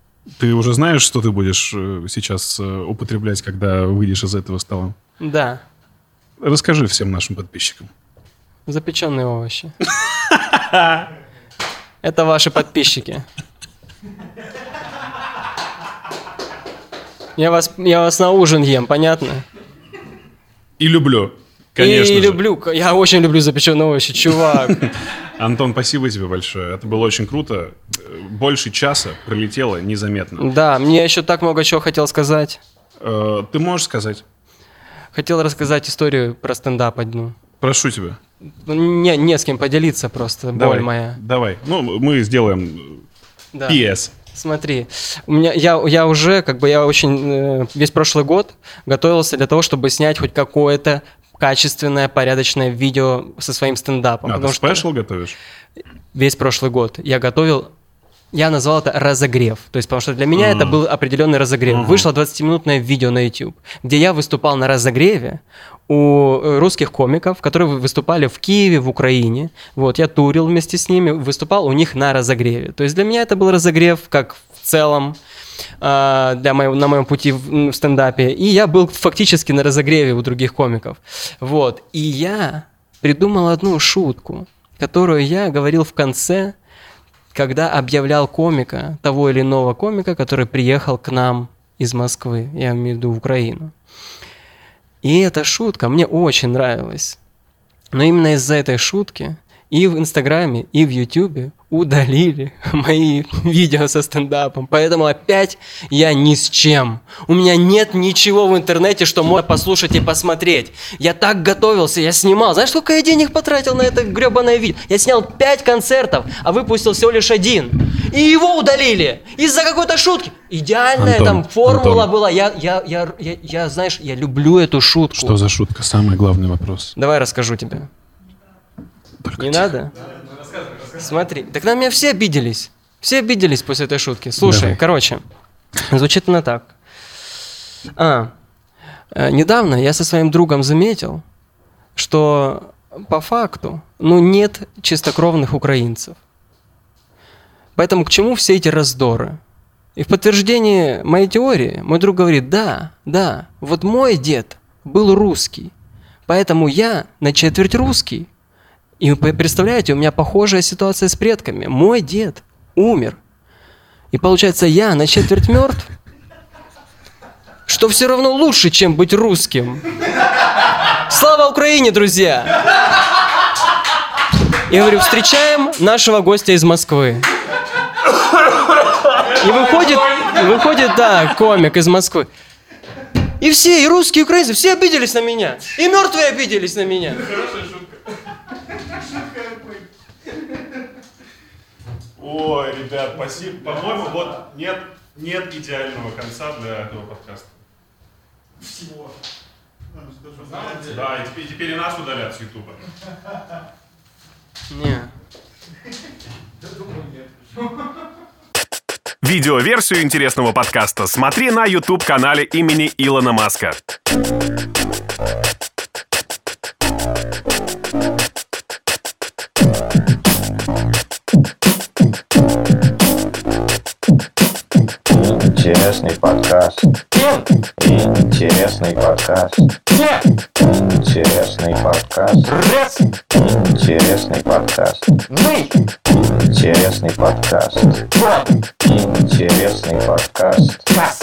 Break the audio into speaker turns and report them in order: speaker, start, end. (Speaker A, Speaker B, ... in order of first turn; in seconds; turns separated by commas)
Speaker A: 0.4-5.0, Speaker B: 5.2-5.6, Speaker A: 6.4-7.9, Speaker B: 8.7-9.8, Speaker A: 10.3-11.0, Speaker B: 12.0-13.3, Speaker B: 17.4-19.4, Speaker A: 20.8-22.4, Speaker B: 21.8-24.9, Speaker A: 24.5-30.5, Speaker B: 30.4-32.6, Speaker A: 33.0-34.2, Speaker B: 35.1-37.4, Speaker A: 37.6-38.2, Speaker B: 38.5-41.2, Speaker A: 40.5-43.1, Speaker B: 43.5-54.9, Speaker A: 43.7-44.1, Speaker A: 54.2-55.4, Speaker B: 56.1-57.7, Speaker B: 58.3-75.2, Speaker A: 60.4-60.8, Speaker A: 61.7-62.1, Speaker B: 75.8-86.5, Speaker B: 87.3-93.7, Speaker B: 95.0-97.2, Speaker B: 97.9-125.4, Speaker A: 121.0-122.1, Speaker A: 125.1-127.0, Speaker B: 127.0-127.9, Speaker A: 129.2-129.7, Speaker B: 129.4-129.9, Speaker B: 130.6-135.2, Speaker A: 134.4-134.8, Speaker B: 135.8-136.8, Speaker B: 138.0-138.3, Speaker B: 139.1-141.2, Speaker B: 142.0-146.2, Speaker B: 147.8-149.4, Speaker B: 150.0-155.7, Speaker B: 156.3-158.3, Speaker B: 159.0-163.2, Speaker B: 164.1-165.9, Speaker B: 167.7-169.8, Speaker B: 170.8-172.7, Speaker B: 174.7-177.3, Speaker B: 179.2-182.3, Speaker B: 183.4-187.6, Speaker A: 187.5-187.8, Speaker A: 192.2-197.6, Speaker A: 200.3-202.8, Speaker B: 204.7-205.1, Speaker C: 209.2-213.8, Speaker D: 225.1-227.0, Speaker D: 227.8-229.7, Speaker D: 230.6-235.2, Speaker D: 236.1-238.0, Speaker D: 238.8-240.9